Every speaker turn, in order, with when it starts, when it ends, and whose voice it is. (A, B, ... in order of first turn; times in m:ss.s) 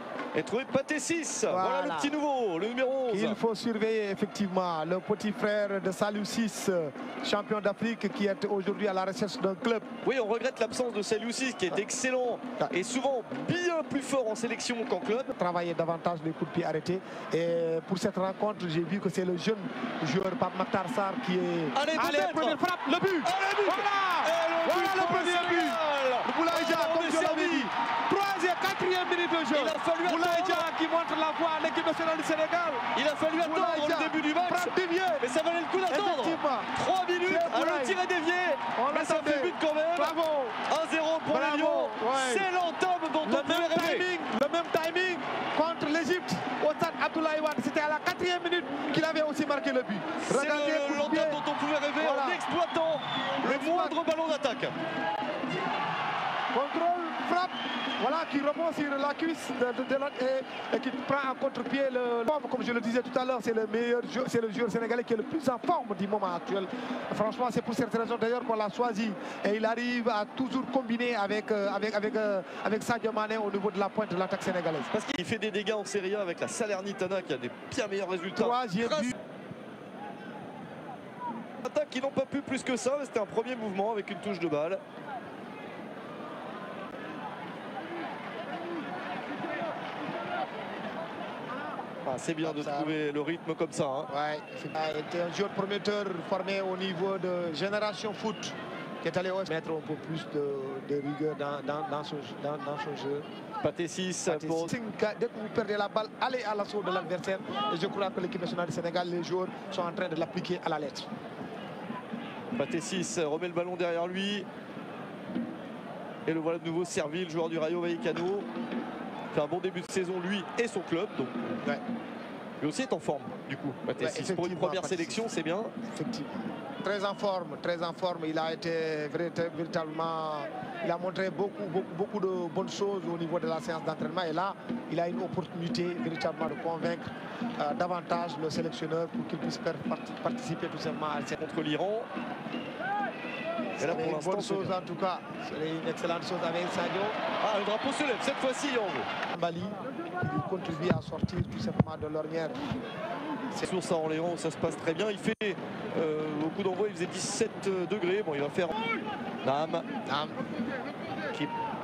0:00.3-0:03.4 A
0:01.5-0:02.2 B
0:03.1-0:09.9 B
0:10.0-0:15.3 A
0:15.4-0:32.8 B
0:21.7-0:22.6 A
0:23.2-0:27.7 A
0:29.5-0:30.7 A
0:32.9-0:44.1 A
0:33.4-0:35.2 B
0:35.9-0:38.0 B
0:38.7-0:40.6 B
0:41.3-0:42.5 B
0:43.2-0:51.4 B
0:50.2-0:54.7 A
0:52.0-0:52.4 B
0:53.4-0:54.0 B
0:56.5-1:14.9 B
1:14.9-1:19.1 A
1:18.3-1:19.1 B
1:21.6-1:24.8 A
1:32.0-1:34.1 A
1:32.4-1:33.0 B
1:34.1-1:43.3 B
1:43.6-1:44.7 A
1:44.3-1:51.1 B
1:52.5-1:54.4 A
1:56.2-1:58.5 A
1:59.3-2:01.6 A
2:02.6-2:05.7 A
2:04.0-2:05.2 B
2:05.9-2:21.4 B
2:21.4-2:22.1 A
2:23.8-2:24.8 A
2:23.8-2:27.2 B
2:27.4-2:29.1 A
2:29.3-2:32.7 B
2:33.6-2:38.8 A
2:39.4-2:39.9 A
2:40.0-2:40.4 B